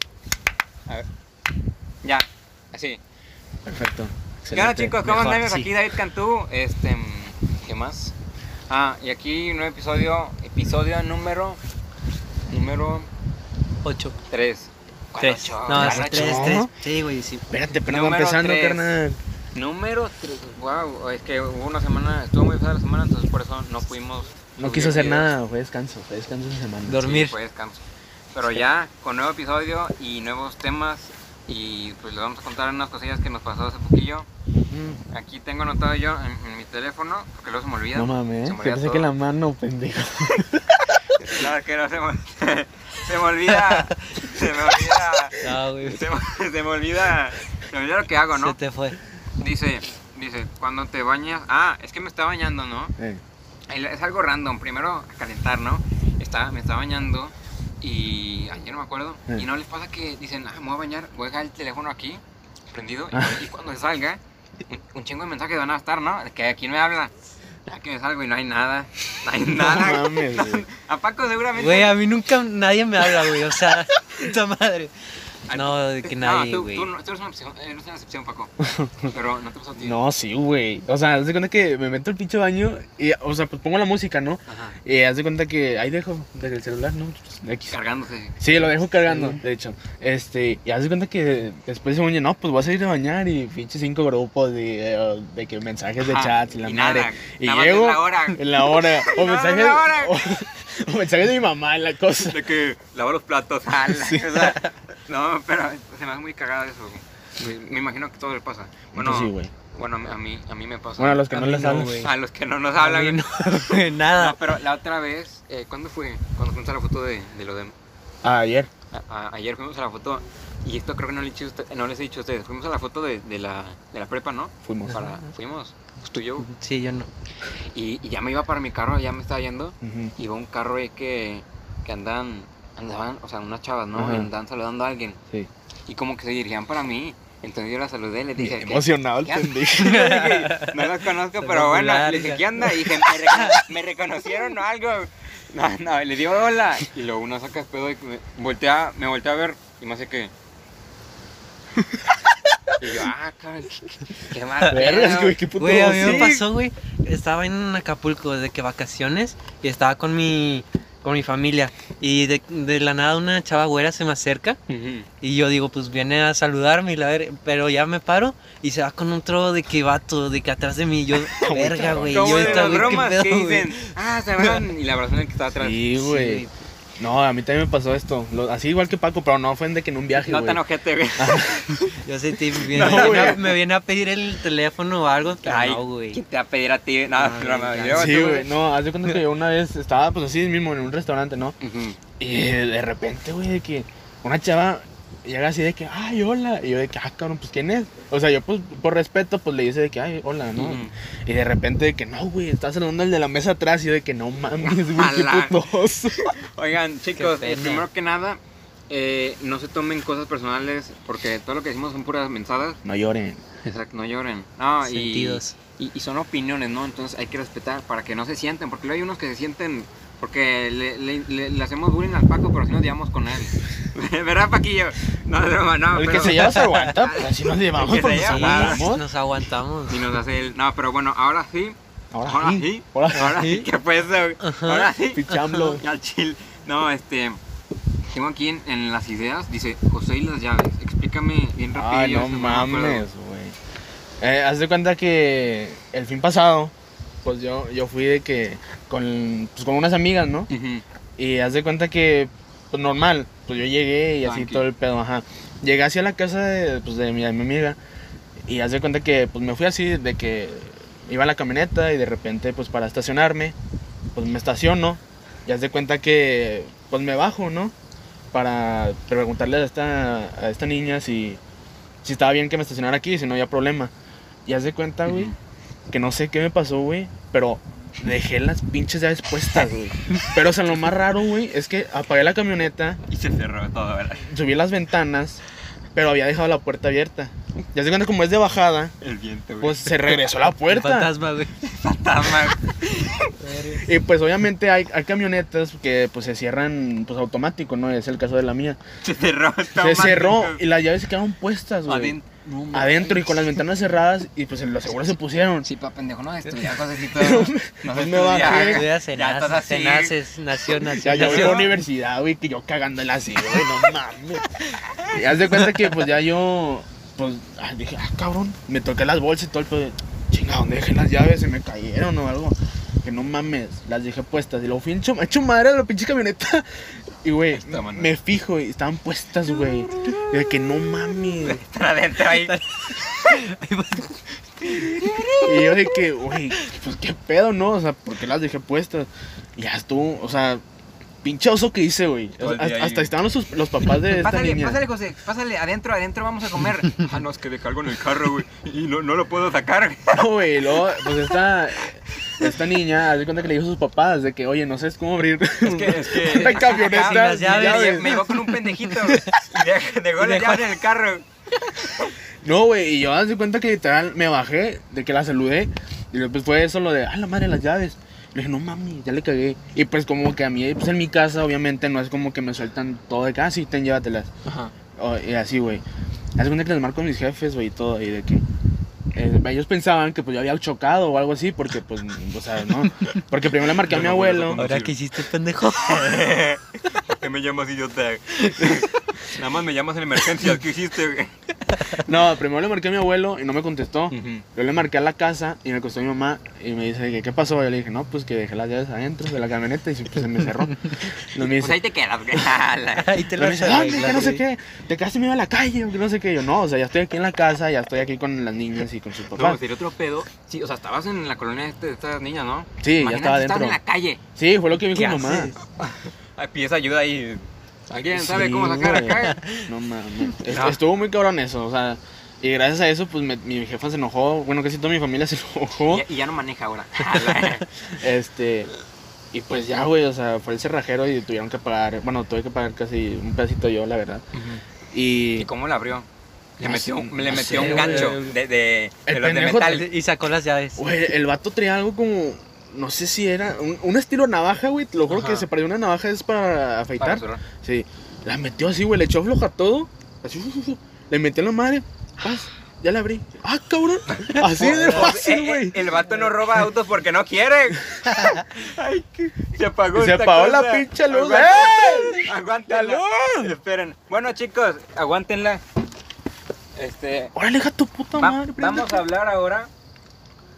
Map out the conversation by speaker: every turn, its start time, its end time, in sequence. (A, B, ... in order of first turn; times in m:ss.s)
0:02.0-0:03.0 A
0:03.6-0:05.0 B
0:04.5-0:08.1 A
0:05.0-0:05.7 C
0:08.7-0:11.6 A
0:12.5-0:13.1 A
0:13.8-0:14.2 C
0:14.3-0:16.6 A
0:15.2-0:17.5 C
0:15.7-0:16.7 B
0:17.5-0:19.2 B
0:17.9-0:19.0 A
0:19.6-0:25.3 A
0:24.6-0:27.0 B
0:26.9-0:27.4 C
0:27.0-0:27.8 A
0:28.3-0:34.3 A
0:34.5-0:35.0 B
0:35.1-0:39.1 A
0:38.0-0:40.8 B
0:41.1-0:48.6 A
0:43.5-0:44.2 C
0:45.4-0:46.1 C
0:48.3-0:49.0 C
0:49.4-0:52.9 A
0:53.7-1:07.1 A
1:03.1-1:03.4 B
1:07.7-1:12.0 A
1:09.5-1:10.6 B
1:11.6-1:14.9 C
1:15.5-1:18.5 A
1:15.5-1:16.9 C
1:18.6-1:19.1 B
1:19.1-1:20.0 A
1:19.8-1:27.8 B
1:24.5-1:24.8 A
1:27.7-1:28.4 A
1:28.4-1:42.4 B
1:29.0-1:29.4 C
1:36.0-1:40.2 A
1:42.3-1:51.2 A
1:43.9-1:44.5 B
1:48.9-1:49.5 B
1:51.0-1:52.1 B
1:51.3-1:52.1 C
1:52.0-1:57.7 A
1:52.8-1:54.5 C
1:58.2-1:58.7 B
1:58.9-2:06.5 A
2:04.6-2:05.0 B
2:06.4-2:07.1 C
2:07.7-2:15.2 A
2:09.8-2:10.1 B
2:14.0-2:14.3 B
2:15.9-2:30.3 A
2:18.4-2:20.0 B
2:19.8-2:23.6 C
2:31.8-2:32.7 B
2:32.8-2:35.4 A
2:34.7-2:36.4 B
2:35.6-2:44.6 C
2:36.0-2:36.3 A
2:44.7-2:45.1 A
2:45.2-2:53.9 C
2:51.4-2:53.1 B
2:52.1-2:55.8 A
2:55.6-2:56.4 B
2:56.0-2:56.5 C
2:57.0-3:00.6 B
3:00.2-3:02.0 A
3:01.2-3:01.6 B
3:02.0-3:06.2 C
3:02.7-3:03.6 A
3:02.7-3:03.5 B
3:05.4-3:08.5 A
3:07.2-3:08.2 C
3:07.9-3:11.6 B
3:11.6-3:12.0 A
3:12.2-3:26.3 B
3:20.6-3:20.9 A
3:24.6-3:25.6 A
3:26.2-3:32.8 A
3:27.2-3:27.9 C
3:32.8-3:33.4 B
3:33.6-3:48.9 A
3:34.8-3:35.6 C
3:45.9-3:49.1 B
3:46.2-3:46.9 C
3:48.2-3:50.0 C
3:49.9-3:55.2 A
3:52.1-3:53.4 B
3:53.2-3:53.7 C
3:54.4-3:55.8 C
3:55.1-3:55.8 B
3:55.8-3:57.4 A
3:58.1-4:03.0 A
4:01.7-4:03.6 B
4:04.2-4:10.5 B
4:10.5-4:10.8 A
4:11.2-4:17.8 B
4:14.2-4:14.6 A
4:18.4-4:23.6 B
4:24.1-4:27.7 B
4:28.3-4:31.4 B
4:32.0-4:33.9 B
4:34.5-4:35.3 B
4:35.1-4:35.4 A
4:35.9-4:43.0 B
4:43.1-4:44.3 A
4:44.2-4:45.4 B
4:46.0-4:49.0 B
4:49.0-4:50.2 A
4:49.6-4:51.1 B
4:50.7-4:51.6 C
4:51.6-4:53.3 A
4:53.4-4:53.9 C
4:53.8-4:58.8 B
4:59.0-5:00.6 A
4:59.8-5:02.2 B
5:01.8-5:03.5 A
5:02.7-5:05.7 B
5:05.6-5:10.2 A
5:07.1-5:08.9 B
5:08.4-5:11.7 C
5:10.8-5:14.5 B
5:11.1-5:11.7 A
5:15.0-5:31.6 B
5:27.5-5:28.1 A
5:31.4-5:32.6 A
5:32.2-5:35.8 C
5:34.7-5:35.4 A
5:35.4-5:40.6 B
5:41.2-5:44.8 B
5:42.4-5:43.1 A
5:44.1-5:50.8 A
5:50.1-5:58.2 B
5:55.6-6:02.1 A
5:56.4-5:59.3 C
6:00.2-6:00.8 C
6:02.4-6:14.3 B
6:14.4-6:14.7 A
6:15.0-6:15.8 B
6:16.4-6:18.4 B
6:19.1-6:24.6 B
6:23.8-6:25.0 A
6:24.5-6:26.4 C
6:25.8-6:31.3 A
6:31.8-6:32.0 C
6:32.0-6:41.8 B
6:34.1-6:34.4 A
6:41.5-6:43.2 A
6:43.0-6:44.4 C
6:43.4-6:49.6 B
6:49.3-6:54.2 A
6:52.8-6:53.8 B
6:54.4-6:55.5 B
6:54.9-6:55.6 C
6:55.8-6:59.4 A
6:58.1-7:06.1 B
6:59.3-6:59.7 C
7:00.5-7:00.8 A
7:05.9-7:07.7 A
7:07.9-7:08.7 B
7:09.3-7:14.2 B
7:14.3-7:14.6 A
7:14.9-7:15.5 B
7:15.4-7:16.1 A
7:16.6-7:19.9 A
7:16.6-7:18.3 B
7:17.4-7:18.3 C
7:19.1-7:19.8 B
7:19.6-7:20.8 C
7:20.8-7:35.9 B
7:25.1-7:25.4 A
7:27.0-7:27.4 A
7:34.1-7:45.6 A
7:34.4-7:35.1 C
7:40.0-7:42.3 B
7:42.9-7:43.3 C
7:46.8-7:47.3 A
7:47.4-7:49.0 B
7:48.2-7:49.7 A